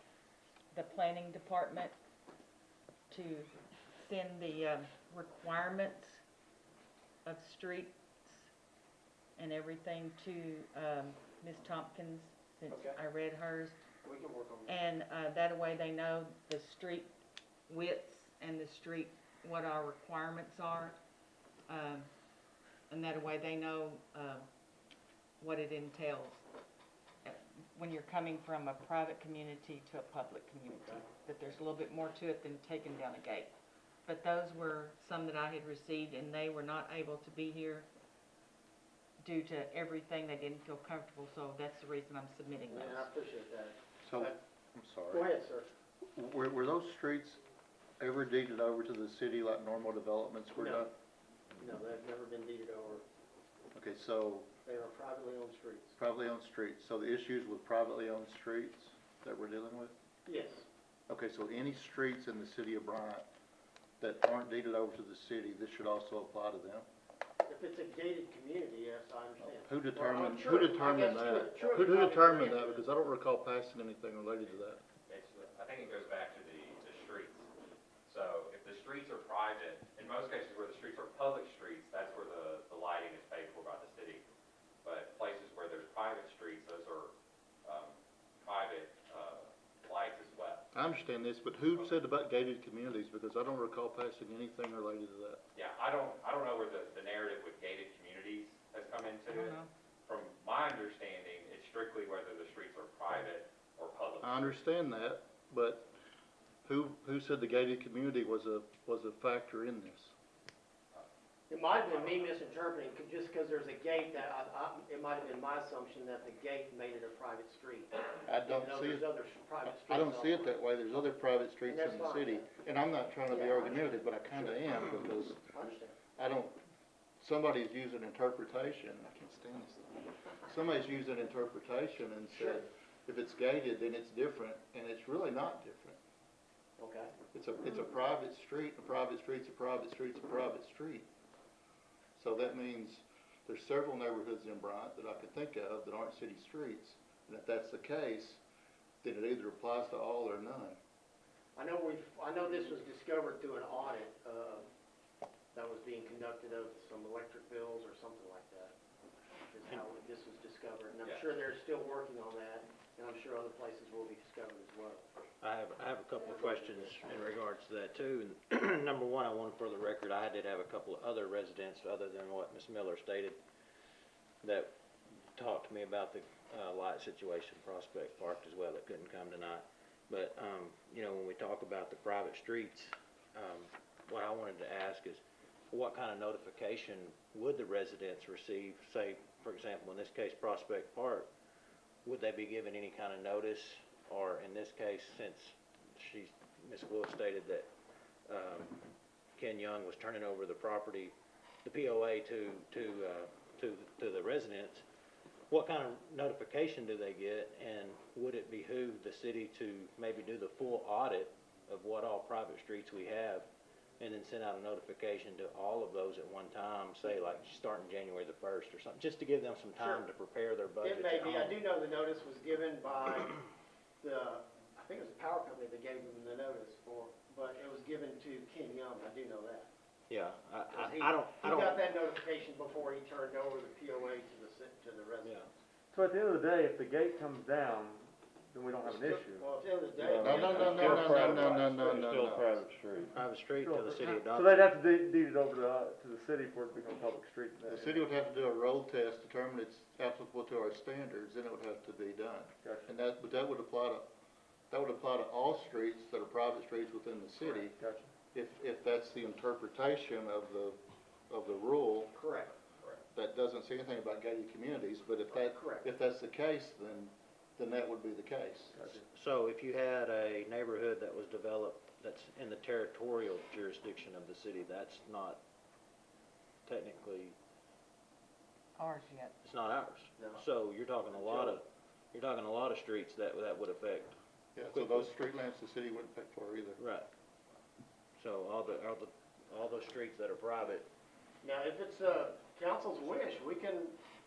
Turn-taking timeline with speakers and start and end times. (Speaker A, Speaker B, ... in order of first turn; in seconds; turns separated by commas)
Speaker A: 0.7-1.9, Speaker A: 3.1-6.2, Speaker A: 7.2-8.5, Speaker A: 9.3-13.8, Speaker B: 12.7-13.0, Speaker B: 14.0-14.7, Speaker A: 14.7-17.1, Speaker A: 17.7-21.0, Speaker A: 21.7-22.1, Speaker A: 22.9-24.5, Speaker A: 25.4-26.4, Speaker A: 27.2-33.5, Speaker A: 34.0-37.9, Speaker A: 39.2-43.1, Speaker B: 42.7-44.4, Speaker C: 44.0-45.3, Speaker B: 45.1-45.7, Speaker C: 46.1-47.4, Speaker C: 48.0-50.9, Speaker B: 50.6-50.9, Speaker B: 51.6-53.0, Speaker C: 53.7-54.5, Speaker B: 54.6-56.0, Speaker C: 56.0-59.9, Speaker B: 60.2-60.6, Speaker C: 61.1-63.3, Speaker C: 64.0-66.9, Speaker B: 67.5-72.8, Speaker C: 69.4-74.8, Speaker D: 75.1-77.5, Speaker D: 78.0-84.2, Speaker D: 84.8-87.1, Speaker D: 87.6-90.7, Speaker C: 90.7-95.4, Speaker D: 95.5-104.5, Speaker A: 99.3-99.7, Speaker C: 104.2-105.9, Speaker C: 106.6-110.1, Speaker B: 111.5-120.6, Speaker D: 111.8-112.2, Speaker C: 118.2-119.1, Speaker C: 119.7-125.4, Speaker B: 121.7-122.5, Speaker B: 123.3-124.6, Speaker B: 125.5-126.0, Speaker C: 126.2-126.5, Speaker C: 127.2-129.9, Speaker C: 130.4-136.0, Speaker B: 132.3-132.6, Speaker B: 136.8-137.1, Speaker C: 137.3-141.1, Speaker C: 142.2-148.4, Speaker C: 149.0-150.8, Speaker B: 151.5-154.7, Speaker B: 155.5-158.7, Speaker B: 159.4-165.1, Speaker D: 161.0-161.3, Speaker E: 165.4-173.4, Speaker B: 166.3-167.1, Speaker E: 174.4-174.7, Speaker E: 175.3-191.3, Speaker E: 192.0-197.7, Speaker E: 198.3-198.8, Speaker E: 199.4-204.8, Speaker E: 205.5-213.5, Speaker E: 214.0-221.6, Speaker B: 219.8-220.1, Speaker B: 220.8-223.4, Speaker B: 224.0-229.7, Speaker E: 230.1-231.8, Speaker B: 230.7-235.5, Speaker E: 235.2-235.5, Speaker F: 235.9-248.1, Speaker B: 238.8-241.9, Speaker C: 240.2-242.5, Speaker E: 243.1-244.6, Speaker C: 247.7-254.1, Speaker F: 252.6-252.9, Speaker C: 254.7-257.8, Speaker F: 257.6-258.1, Speaker C: 258.3-262.1, Speaker B: 262.1-262.5, Speaker C: 263.1-269.0, Speaker B: 265.3-265.9, Speaker E: 269.1-275.4, Speaker E: 276.6-277.4, Speaker A: 278.8-279.4, Speaker E: 279.4-284.1, Speaker B: 280.2-280.4, Speaker B: 281.1-281.6, Speaker C: 284.5-286.8, Speaker E: 284.7-285.1, Speaker E: 286.8-287.1, Speaker E: 288.2-290.9, Speaker B: 291.4-293.9